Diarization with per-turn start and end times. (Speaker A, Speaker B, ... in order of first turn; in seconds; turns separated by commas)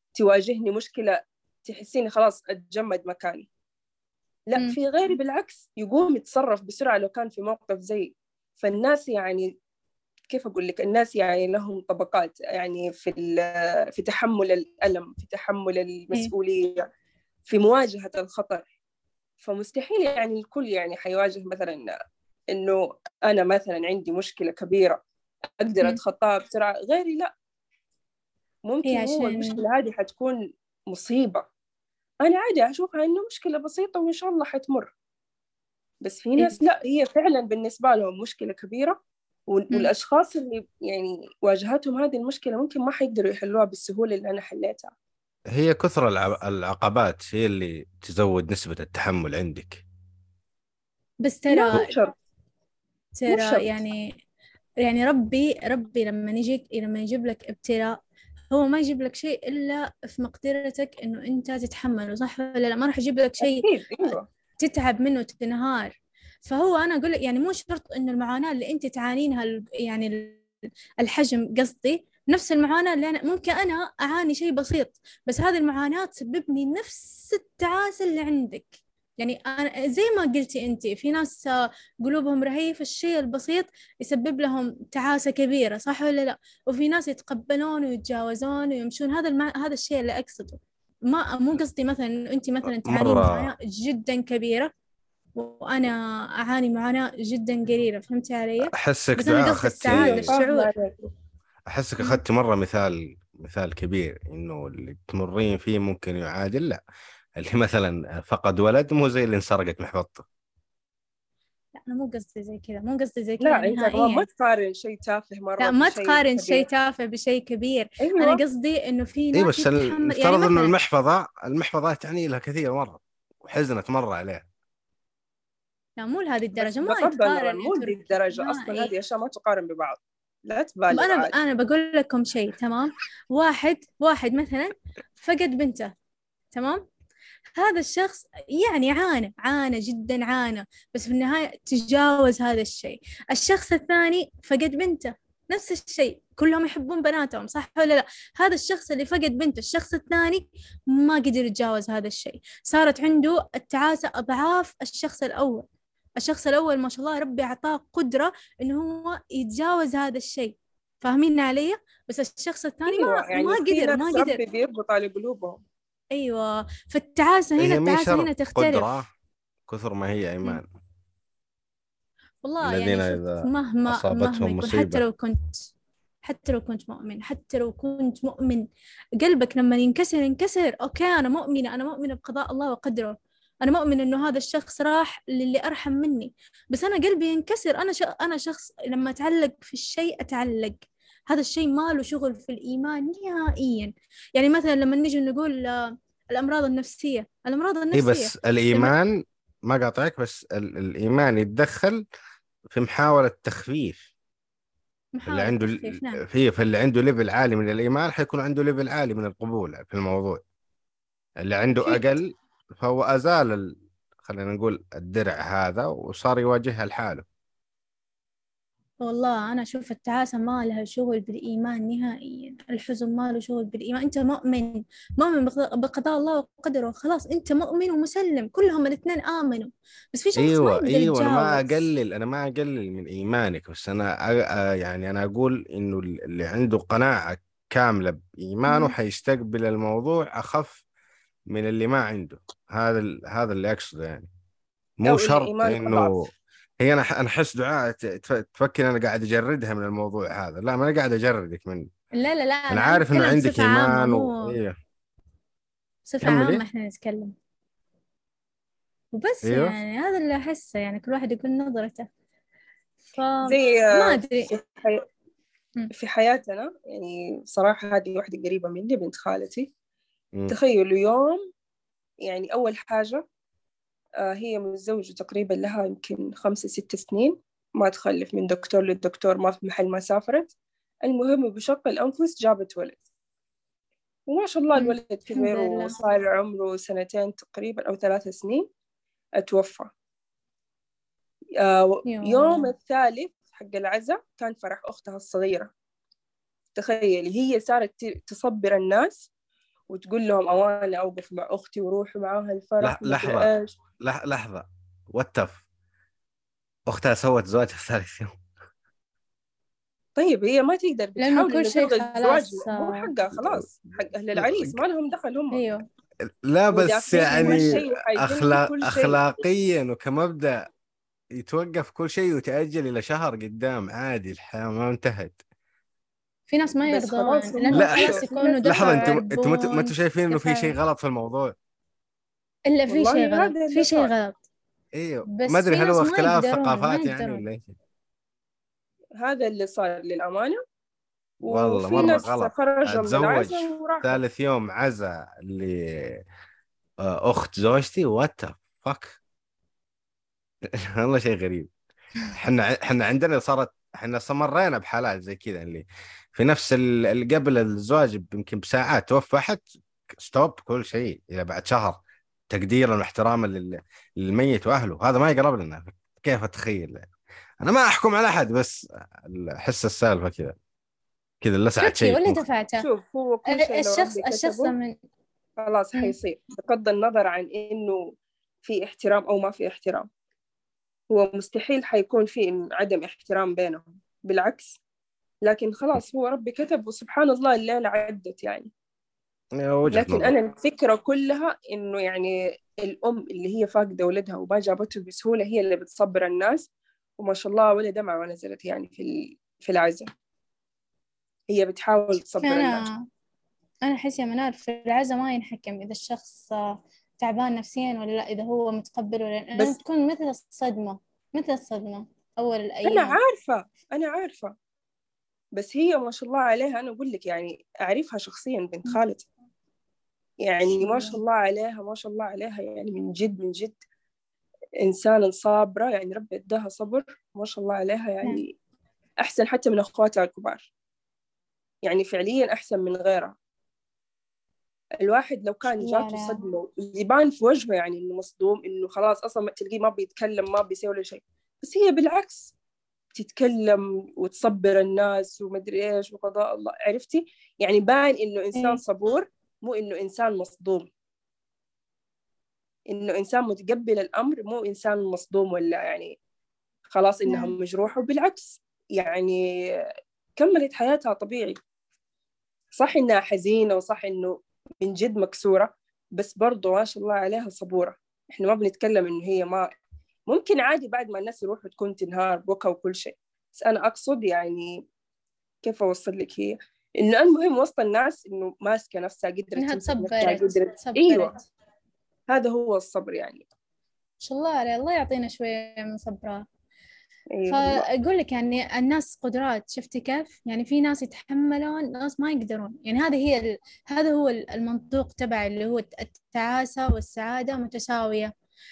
Speaker A: 0.1-3.5, Speaker A: 4.5-9.5, Speaker A: 10.3-16.9, Speaker A: 17.5-18.7, Speaker A: 19.4-21.9, Speaker A: 22.5-25.0, Speaker A: 25.6-27.3, Speaker A: 28.7-30.4, Speaker B: 28.9-29.6, Speaker A: 30.9-31.5, Speaker A: 32.2-34.9, Speaker A: 36.0-39.0, Speaker A: 39.5-44.9, Speaker C: 45.5-49.8, Speaker B: 51.2-51.9, Speaker A: 51.5-52.1, Speaker B: 53.2-54.0, Speaker A: 53.3-53.8, Speaker B: 54.8-58.0, Speaker B: 58.5-66.0, Speaker A: 63.4-64.3, Speaker B: 66.5-70.4, Speaker B: 71.0-94.7, Speaker C: 92.8-93.5, Speaker B: 95.4-100.7, Speaker C: 98.6-100.3, Speaker A: 99.9-101.1, Speaker C: 101.7-106.8, Speaker C: 107.4-110.2, Speaker B: 111.8-114.3, Speaker A: 113.4-116.7, Speaker B: 115.6-120.7, Speaker A: 118.0-118.4, Speaker C: 119.3-124.5, Speaker B: 126.0-128.9, Speaker A: 126.6-131.3, Speaker B: 130.9-135.9, Speaker B: 136.5-136.8, Speaker B: 137.6-155.7, Speaker B: 156.2-164.4, Speaker A: 162.9-165.6, Speaker B: 166.1-168.9, Speaker C: 167.6-169.1, Speaker C: 169.7-170.7, Speaker B: 172.4-175.6, Speaker C: 172.6-175.0, Speaker B: 176.2-178.7, Speaker B: 179.2-198.9, Speaker C: 197.9-202.0, Speaker C: 202.7-204.1, Speaker B: 205.1-206.2, Speaker C: 205.3-210.4, Speaker C: 211.4-217.2, Speaker B: 219.0-231.8, Speaker C: 230.4-240.8, Speaker B: 238.7-238.9, Speaker C: 241.5-244.3, Speaker C: 245.0-246.1, Speaker A: 245.1-246.2, Speaker C: 246.8-251.9, Speaker B: 252.1-254.5, Speaker C: 252.7-254.8, Speaker B: 256.1-257.3, Speaker C: 256.2-256.6, Speaker B: 259.1-262.1, Speaker C: 259.4-259.8, Speaker B: 263.1-264.5, Speaker A: 263.4-265.1, Speaker A: 265.9-269.7, Speaker A: 270.5-271.4, Speaker A: 272.2-273.2, Speaker A: 274.2-280.5, Speaker A: 281.0-283.0, Speaker A: 284.3-288.7, Speaker B: 284.8-286.0, Speaker A: 289.4-289.9, Speaker A: 291.6-295.7, Speaker B: 292.1-292.7, Speaker A: 296.8-299.2, Speaker A: 299.9-303.8, Speaker C: 302.8-305.6, Speaker C: 306.9-308.4, Speaker A: 310.2-315.6, Speaker B: 311.2-313.1, Speaker C: 313.4-314.8, Speaker B: 315.5-315.8, Speaker C: 316.3-320.7, Speaker A: 316.7-319.2, Speaker B: 317.1-317.8, Speaker C: 321.4-325.4, Speaker B: 326.5-330.8, Speaker A: 326.9-329.2, Speaker C: 327.7-331.6, Speaker B: 332.7-334.4, Speaker A: 332.9-334.1, Speaker C: 334.9-337.6, Speaker B: 335.3-337.4, Speaker A: 339.2-340.6, Speaker C: 341.5-346.2, Speaker A: 341.5-344.2, Speaker C: 347.0-349.2, Speaker C: 350.8-351.7, Speaker C: 352.3-359.7, Speaker C: 360.2-362.0, Speaker C: 362.5-367.1, Speaker C: 367.6-370.6, Speaker C: 371.4-372.4, Speaker B: 371.8-372.9, Speaker A: 372.8-374.7, Speaker B: 373.5-374.9, Speaker A: 375.6-378.1, Speaker A: 378.6-380.1, Speaker A: 381.1-384.8, Speaker A: 385.4-388.7, Speaker C: 389.6-390.3, Speaker A: 389.9-400.1, Speaker A: 401.5-402.9, Speaker B: 402.4-403.1, Speaker B: 403.9-413.2, Speaker A: 412.9-414.5, Speaker A: 415.6-419.3, Speaker A: 420.4-423.8, Speaker B: 420.8-421.2, Speaker A: 424.8-428.5, Speaker A: 429.2-430.7, Speaker A: 431.8-433.4, Speaker A: 435.0-442.5, Speaker B: 435.8-436.4, Speaker A: 443.1-450.9, Speaker A: 452.9-456.2, Speaker A: 456.9-459.8, Speaker B: 457.3-457.5, Speaker A: 460.4-461.6, Speaker A: 462.8-469.7, Speaker A: 470.3-474.8, Speaker A: 475.6-481.3, Speaker B: 479.6-481.4, Speaker A: 482.3-483.4, Speaker B: 484.2-486.4, Speaker A: 487.4-487.9, Speaker B: 487.5-498.3